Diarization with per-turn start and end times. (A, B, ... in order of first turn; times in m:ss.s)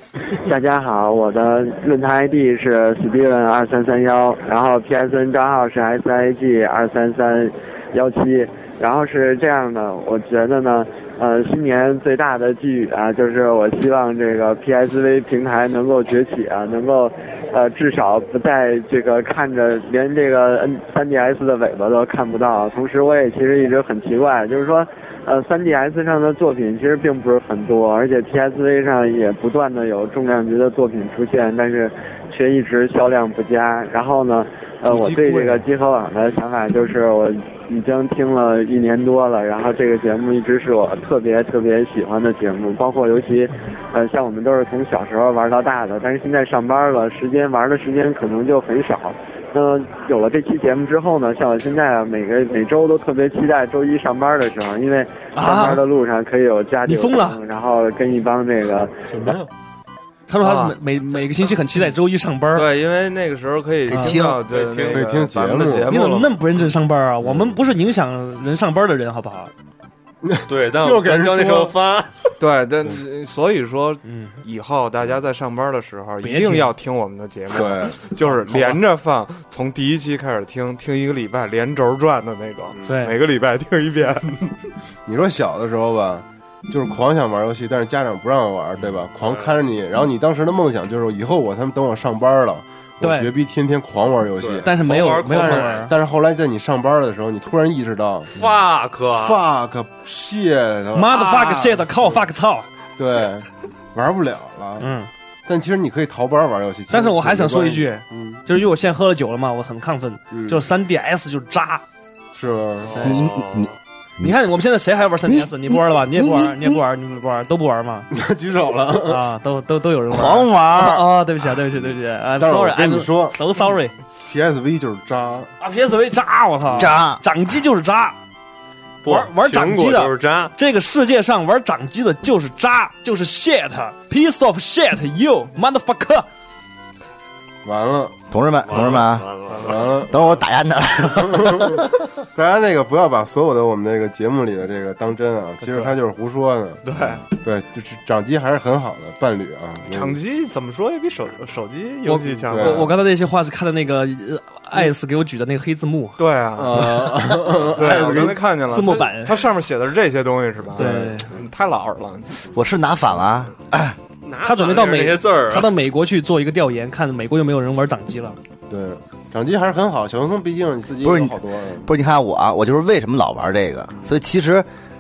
0:00.4-0:59.0 A
0:34.9-0:35.6 B
0:55.3-0:55.8 C
0:56.8-0:57.4 C
0:59.1-0:59.4 D
1:00.3-1:02.7 C
1:00.4-1:00.8 B
1:02.5-1:06.4 B
1:03.9-1:04.4 E
1:04.4-1:05.1 F
1:04.9-1:05.9 D
1:05.9-1:09.5 C
1:07.2-1:07.6 D
1:10.2-1:11.8 D
1:10.5-1:12.1 F
1:12.4-1:24.3 B
1:14.0-1:14.4 C
1:16.2-1:16.7 C
1:17.5-1:18.0 D
1:18.3-1:18.8 C
1:22.9-1:23.2 C
1:25.1-1:38.3 D
1:29.2-1:29.6 F
1:33.0-1:33.3 C
1:34.4-1:35.9 F
1:34.6-1:35.9 C
1:38.3-1:39.4 F
1:39.1-1:41.4 D
1:41.0-1:42.7 C
1:41.4-1:41.7 F
1:41.9-1:42.2 D
1:43.0-1:44.9 D
1:44.8-1:45.1 C
1:45.5-1:48.4 D
1:46.9-1:51.8 C
1:50.3-1:50.6 D
1:52.3-1:53.1 D
1:53.0-1:53.7 F
1:53.0-1:54.4 E
1:54.2-1:58.1 C
1:55.3-1:56.8 E
1:58.1-1:59.2 D
1:59.0-2:03.9 C
2:00.1-2:01.1 E
2:02.4-2:03.4 D
2:04.2-2:05.5 D
2:05.6-2:08.2 C
2:06.8-2:07.2 E
2:09.0-2:10.5 F
2:09.1-2:16.3 C
2:17.6-2:18.2 D
2:18.3-2:19.3 E
2:18.6-2:19.9 F
2:19.5-2:19.8 B
2:19.6-2:20.2 D
2:20.1-2:21.9 E
2:21.2-2:26.8 D
2:26.8-2:27.2 B
2:27.4-2:30.2 D
2:29.9-2:32.9 B
2:32.1-2:36.2 C
2:32.5-2:32.9 D
2:36.2-2:37.2 B
2:36.6-2:38.4 D
2:37.7-2:42.4 B
2:38.7-2:39.4 C
2:40.8-2:41.3 C
2:40.8-2:41.1 D
2:42.5-2:44.0 E
2:44.2-2:45.7 F
2:44.4-2:48.4 C
2:48.7-2:51.9 D
2:51.0-2:54.7 E